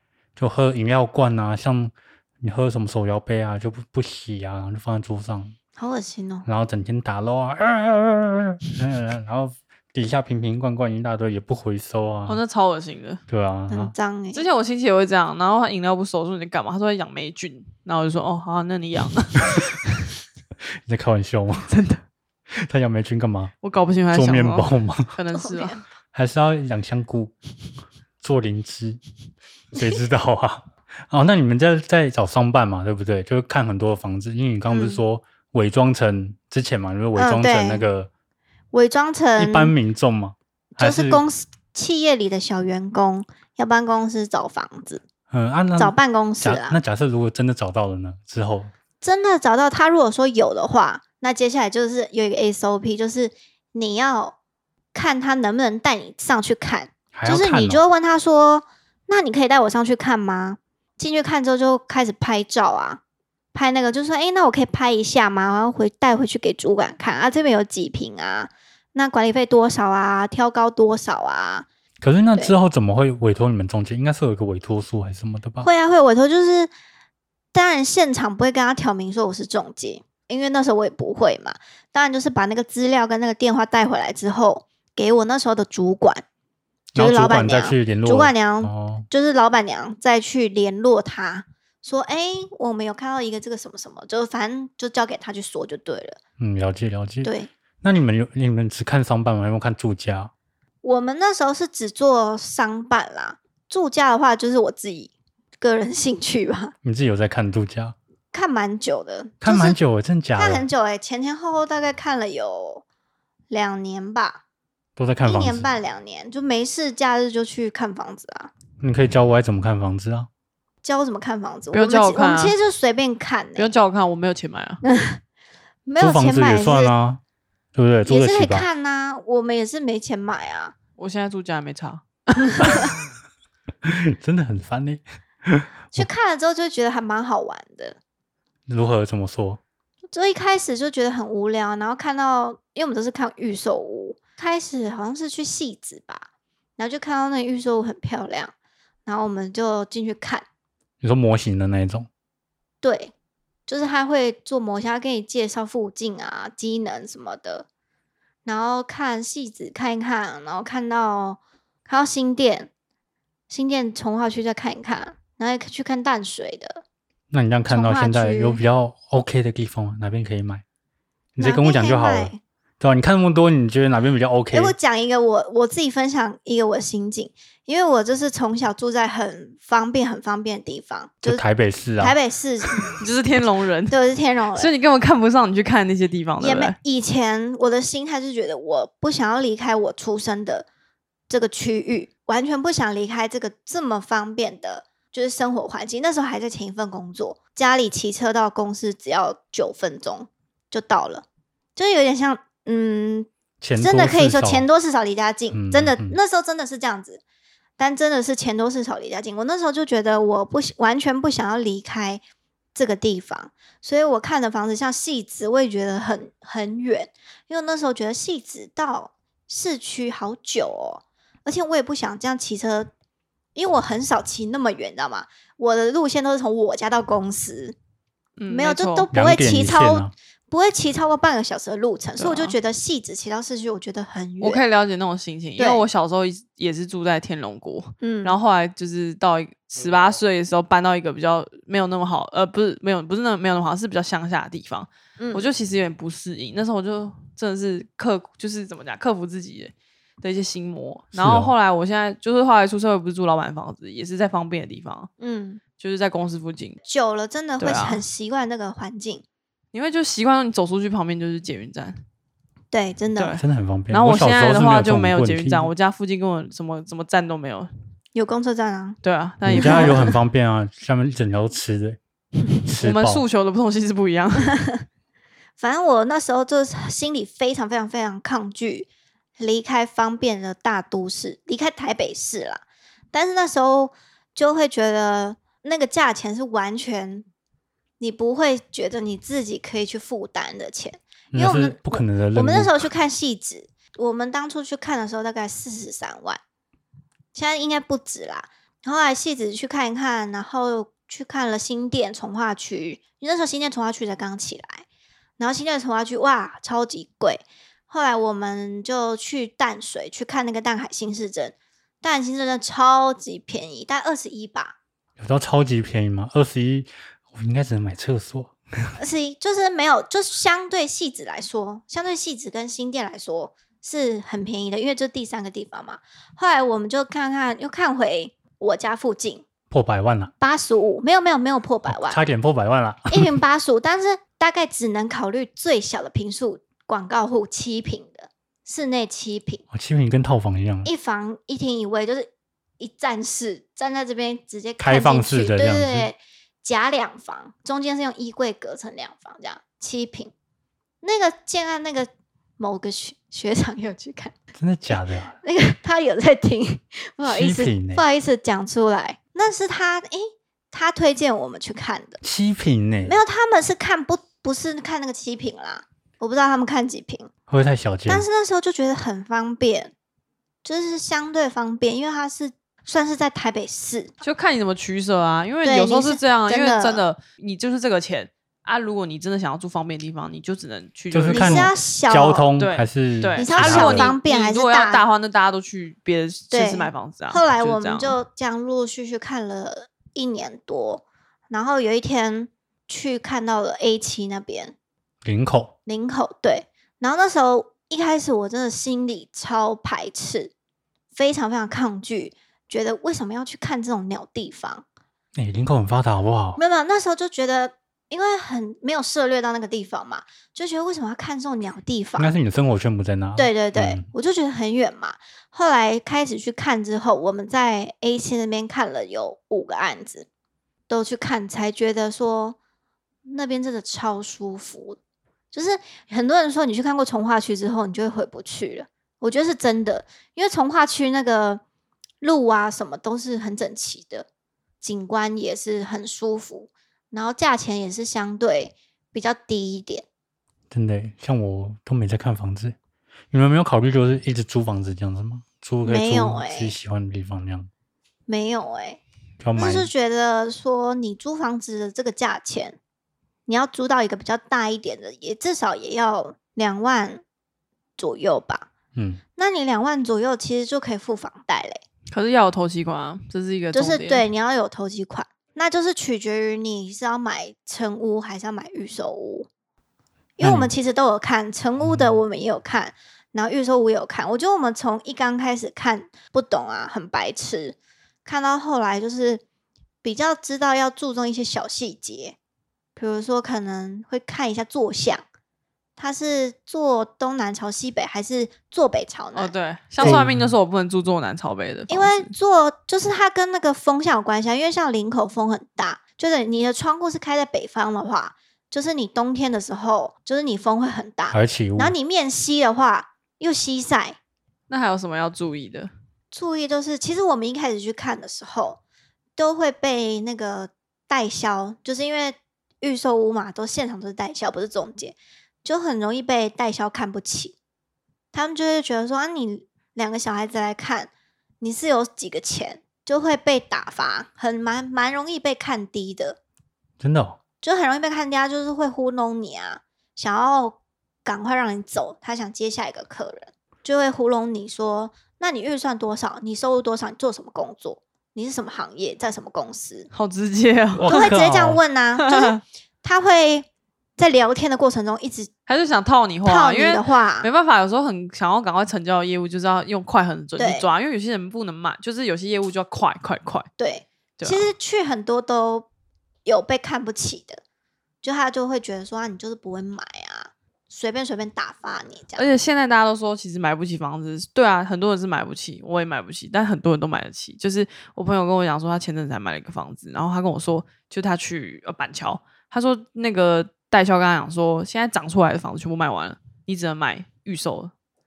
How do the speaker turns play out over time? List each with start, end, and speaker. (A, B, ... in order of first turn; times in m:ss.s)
0:00.4-0:05.5 A
0:05.8-0:06.4 B
0:06.4-0:12.4 A
0:12.3-0:13.2 C
0:13.3-0:13.9 A
0:13.7-0:14.4 B
0:14.3-0:19.9 C
0:20.8-0:21.7 A
0:21.7-0:22.0 C
0:22.5-0:23.5 A
0:23.6-0:25.8 C
0:24.1-0:25.1 A
0:25.4-0:25.8 B
0:26.1-0:27.3 A
0:28.2-0:29.0 A
0:29.7-0:38.1 A
0:34.7-0:35.0 B
0:37.1-0:37.8 B
0:38.7-0:39.7 B
0:39.4-0:41.2 A
0:40.8-0:45.0 B
0:45.3-0:48.7 A
0:45.8-0:46.8 B
0:49.0-0:54.3 B
0:54.9-1:03.0 B
0:57.1-0:57.8 A
1:03.5-1:11.7 B
1:12.0-1:15.7 A
1:15.6-1:16.7 B
1:17.5-1:26.2 B
1:26.9-1:29.0 A
1:27.0-1:36.2 B
1:36.4-1:37.3 A
1:37.2-1:37.5 B
1:37.8-1:40.3 A
1:40.8-1:46.7 B
1:46.8-1:48.0 A
1:48.3-1:49.8 B
1:49.4-1:50.7 A
1:50.4-1:52.8 B
1:53.5-1:54.4 B
1:55.0-1:55.7 A
1:55.2-1:58.5 B
1:58.8-2:00.3 A
2:00.8-2:03.7 B
2:01.7-2:02.5 C
2:03.6-2:04.8 C
2:04.8-2:05.2 B
2:05.8-2:06.9 B
2:06.0-2:07.2 A
2:07.7-2:08.7 A
2:08.0-2:10.7 B
2:11.0-2:12.8 C
2:13.8-2:16.1 A
2:15.9-2:18.0 B
2:18.7-2:19.6 A
2:20.1-2:26.3 B
2:26.8-2:28.5 B
2:29.0-2:30.4 B
2:31.0-2:32.1 A
2:32.8-2:33.1 B
2:33.7-2:37.6 B
2:38.4-2:42.7 B
2:43.5-2:46.8 B
2:47.3-2:50.6 A
2:47.7-2:48.6 B
2:51.4-2:54.7 A
2:51.4-2:52.4 B
2:54.5-3:01.4 B
3:01.2-3:02.2 A
3:02.0-3:03.0 B
3:03.0-3:04.0 C
3:03.9-3:04.7 B
3:04.6-3:06.8 C
3:06.4-3:10.7 B
3:11.3-3:21.2 B
3:21.8-3:27.2 B
3:23.6-3:24.7 A
3:25.5-3:26.2 A
3:27.8-3:32.2 B
3:32.7-3:42.9 B
3:43.5-3:47.7 B
3:48.4-3:49.1 C
3:48.5-3:54.6 B
3:49.1-3:50.1 A
3:52.2-3:52.6 C
3:54.4-4:15.1 C
3:55.6-3:55.8 B
3:58.0-3:58.4 B
4:05.2-4:05.5 B
4:11.1-4:11.5 A
4:15.2-4:15.6 B
4:15.8-4:16.8 C
4:16.9-4:19.2 B
4:17.6-4:18.0 C
4:19.7-4:22.0 C
4:22.7-4:23.4 B
4:23.2-4:27.7 C
4:23.4-4:25.7 A
4:28.1-4:29.0 B
4:29.0-4:30.2 C
4:29.4-4:32.0 A
4:29.6-4:30.0 B
4:32.6-4:33.2 A
4:32.8-4:34.6 C
4:35.6-4:47.2 B
4:48.0-4:56.4 B
4:51.3-4:52.9 A
4:57.3-5:04.8 B
5:05.4-5:14.7 B
5:15.2-5:18.9 A
5:19.0-5:29.4 B
5:29.7-5:30.3 A
5:30.4-5:32.2 B
5:31.9-5:33.3 A
5:33.1-5:39.6 B
5:39.7-5:40.9 A
5:40.8-5:42.3 B
5:42.8-5:50.3 B
5:44.8-5:46.1 A
5:51.0-5:54.3 B
5:54.6-5:55.4 A
5:54.9-6:02.2 B
5:57.2-5:58.0 A
6:02.2-6:03.2 A
6:03.0-6:07.3 B
6:07.5-6:08.2 A
6:08.1-6:09.9 B
6:10.6-6:14.1 B
6:14.2-6:21.7 C
6:15.6-6:17.0 B
6:21.1-6:24.1 A
6:21.3-6:22.5 B
6:22.6-6:28.2 C
6:23.4-6:25.0 B
6:26.5-6:34.7 B
6:35.2-6:35.7 A
6:35.9-6:40.5 B
6:41.1-6:44.8 B
6:45.4-6:46.6 A
6:46.6-6:52.3 B
6:52.2-6:54.0 A
6:53.4-7:00.3 B
7:00.9-7:02.6 B
7:03.2-7:05.0 B
7:05.5-7:11.6 B
7:12.2-7:14.3 B
7:14.8-7:20.0 B
7:20.7-7:22.8 A
7:23.3-7:27.7 A
7:25.8-7:26.7 B
7:28.3-7:29.0 B
7:29.4-7:29.9 A
7:29.6-7:32.8 B
7:33.5-7:37.2 B
7:38.0-7:38.7 B
7:38.9-7:39.2 A
7:39.4-7:41.8 B
7:42.1-7:44.3 C
7:43.7-7:49.5 B
7:50.4-7:59.4 B
7:50.4-7:50.7 A
7:51.8-7:52.1 A
8:00.0-8:02.4 B
8:03.0-8:05.2 B
8:06.0-8:10.2 B
8:09.3-8:12.3 C
8:10.0-8:10.5 A
8:11.9-8:24.2 B
8:21.3-8:21.9 A
8:24.7-8:25.9 C
8:26.3-8:28.8 B
8:29.4-8:37.6 B
8:38.3-8:41.1 B
8:41.6-8:46.4 B
8:47.0-8:47.4 A
8:47.6-9:00.1 B
9:00.1-9:01.2 C
9:00.9-9:01.8 A
9:01.0-9:05.5 B
9:02.2-9:02.6 C
9:05.7-9:13.7 C
9:06.4-9:07.5 B
9:10.6-9:10.8 B
9:13.8-9:15.9 B
9:14.4-9:14.7 C
9:16.4-9:17.6 B
9:18.2-9:22.5 B
9:22.4-9:37.9 C